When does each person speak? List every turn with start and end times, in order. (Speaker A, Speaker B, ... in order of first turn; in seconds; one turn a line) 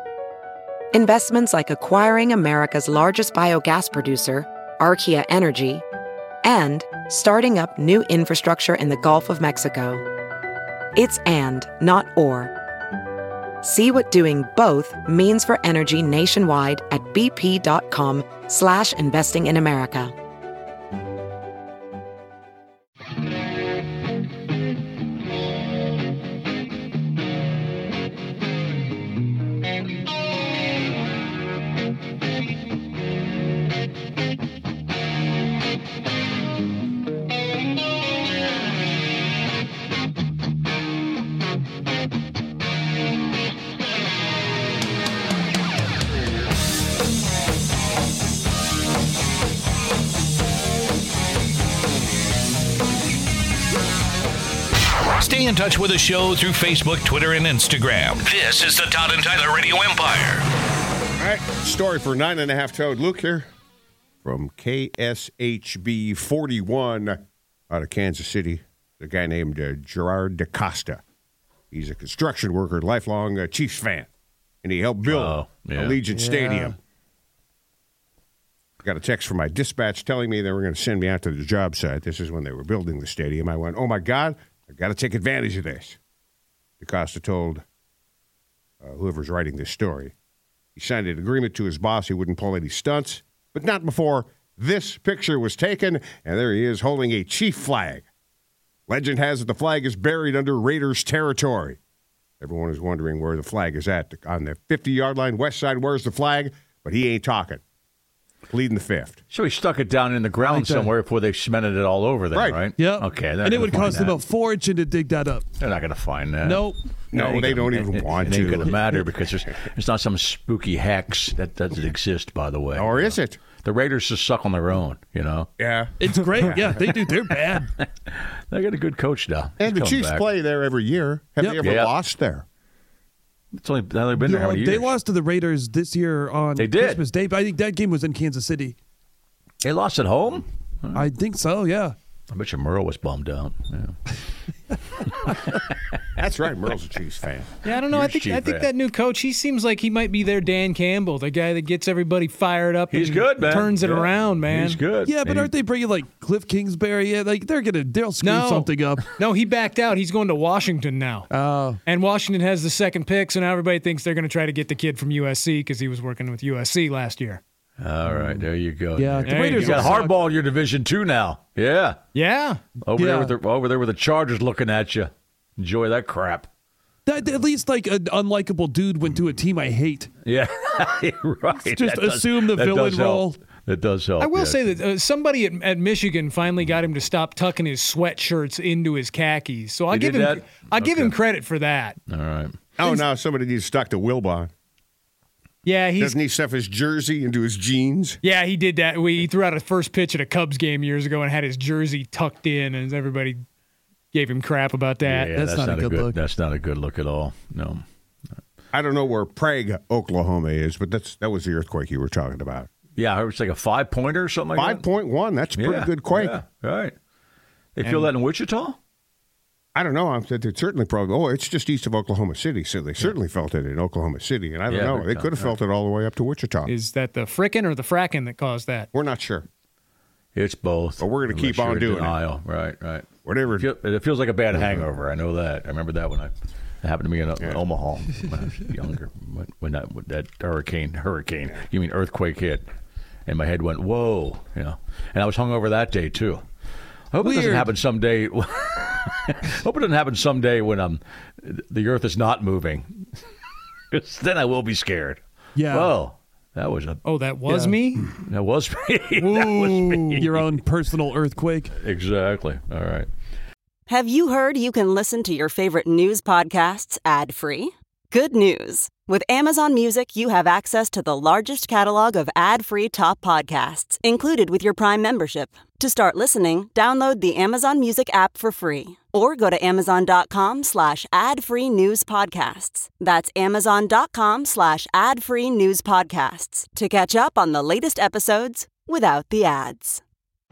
Speaker A: 0.9-5.8
Speaker A: 6.4-10.0
Speaker A: 10.9-12.5
Speaker A: 13.6-20.1
Speaker B: 55.2-60.4
Speaker C: 61.2-63.5
Speaker C: 64.2-71.0
Speaker C: 71.7-74.1
Speaker C: 74.6-76.7
Speaker D: 75.0-76.0
Speaker E: 76.1-76.8
Speaker C: 78.8-86.0
Speaker C: 86.8-87.6
Speaker C: 88.8-90.1
Speaker C: 90.8-98.0
Speaker C: 98.9-101.8
Speaker C: 102.4-107.6
Speaker C: 108.5-109.2
Speaker D: 109.3-114.2
Speaker E: 110.4-110.9
Speaker C: 112.3-112.6
Speaker E: 112.8-115.5
Speaker D: 115.6-125.5
Speaker E: 116.4-116.8
Speaker C: 117.1-118.8
Speaker C: 122.8-123.4
Speaker C: 125.6-125.9
Speaker E: 126.0-127.7
Speaker D: 126.6-127.1
Speaker D: 127.8-130.3
Speaker C: 129.6-132.4
Speaker D: 131.6-131.9
Speaker D: 133.5-134.9
Speaker E: 134.1-138.8
Speaker D: 136.6-137.0
Speaker D: 139.6-141.1
Speaker E: 140.9-142.0
Speaker D: 142.3-144.0
Speaker D: 145.2-145.6
Speaker C: 146.2-147.5
Speaker F: 147.6-154.8
Speaker D: 147.7-148.7
Speaker D: 152.9-155.5
Speaker E: 155.0-159.1
Speaker F: 158.2-161.3
Speaker E: 161.3-161.8
Speaker F: 161.8-167.4
Speaker D: 167.8-172.0
Speaker E: 168.1-168.4
Speaker E: 169.0-170.2
Speaker F: 169.3-170.1
Speaker F: 172.1-172.6
Speaker D: 172.8-176.5
Speaker E: 173.0-173.3
Speaker E: 177.1-180.1
Speaker D: 180.2-184.7
Speaker E: 181.7-183.4
Speaker F: 184.2-192.0
Speaker D: 189.9-191.2
Speaker D: 192.1-192.6
Speaker C: 192.8-194.5
Speaker F: 195.6-196.2
Speaker C: 196.0-198.2
Speaker F: 198.2-203.4
Speaker F: 204.1-205.3
Speaker D: 205.0-207.8
Speaker E: 205.3-206.2
Speaker C: 208.7-212.7
Speaker D: 213.0-214.8
Speaker C: 214.6-216.4
Speaker D: 215.6-216.9
Speaker D: 217.8-218.8
Speaker F: 217.8-218.1
Speaker C: 219.8-226.7
Speaker D: 224.7-225.5
Speaker F: 226.7-228.9
Speaker C: 228.9-229.5
Speaker D: 230.3-233.1
Speaker C: 231.0-232.2
Speaker C: 233.2-233.7
Speaker D: 233.6-242.7
Speaker D: 243.3-246.4
Speaker D: 247.1-253.1
Speaker E: 247.2-247.7
Speaker D: 253.9-257.0
Speaker E: 255.6-255.9
Speaker F: 257.0-258.1
Speaker E: 257.5-257.8
Speaker D: 258.2-260.5
Speaker F: 259.2-260.2
Speaker E: 260.1-261.7
Speaker D: 261.8-263.1
Speaker G: 263.9-290.0